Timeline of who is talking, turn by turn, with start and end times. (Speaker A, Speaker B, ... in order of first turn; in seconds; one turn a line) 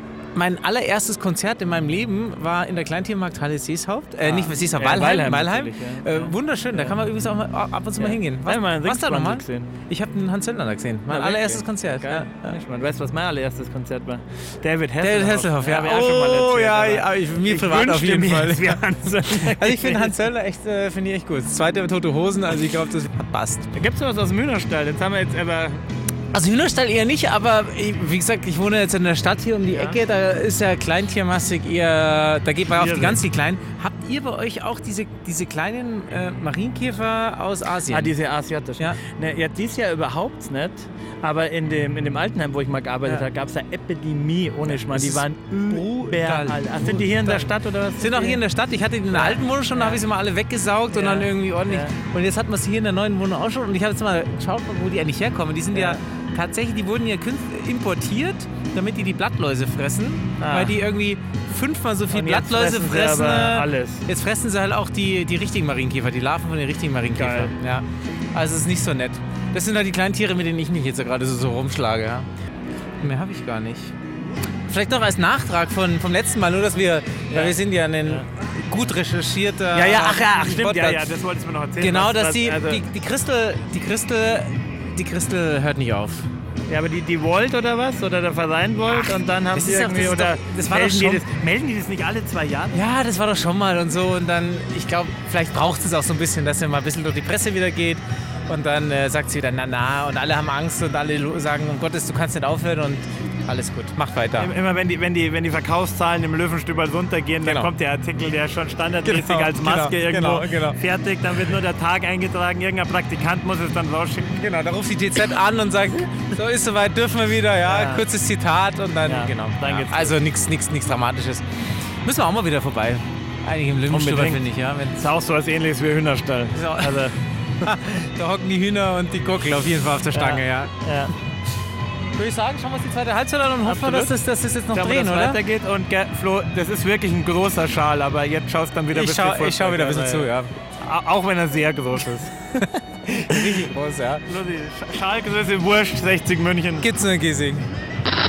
Speaker A: 0.3-12.6
Speaker B: 4.2-7.0
Speaker B: 8.0-9.7
Speaker B: 11.1-20.2
Speaker A: 15.0-23.7
Speaker B: 23.7-25.8
Speaker A: 26.3-38.1
Speaker B: 29.7-30.0
Speaker B: 32.7-33.2
Speaker B: 37.9-48.4
Speaker A: 44.7-72.3
Speaker B: 49.1-50.0
Speaker B: 50.9-51.9
Speaker B: 55.7-56.0
Speaker B: 60.4-60.8
Speaker B: 62.1-64.1
Speaker B: 67.2-67.5
Speaker A: 73.0-73.9
Speaker A: 74.7-81.2
Speaker B: 77.3-78.2
Speaker B: 79.7-82.8
Speaker A: 81.8-86.3
Speaker B: 86.7-92.8
Speaker A: 89.5-91.2
Speaker A: 92.7-104.5
Speaker B: 104.3-114.4
Speaker A: 107.4-107.7
Speaker A: 109.0-110.8
Speaker A: 114.3-121.4
Speaker B: 117.6-118.1
Speaker B: 119.0-120.2
Speaker A: 122.0-125.0
Speaker B: 123.9-127.2
Speaker A: 126.5-130.7
Speaker B: 130.1-131.1
Speaker A: 132.2-135.4
Speaker B: 133.6-134.1
Speaker B: 134.7-140.3
Speaker A: 138.9-140.5
Speaker B: 140.8-142.7
Speaker A: 143.1-144.2
Speaker B: 143.3-143.6
Speaker B: 144.2-146.9
Speaker A: 146.8-147.6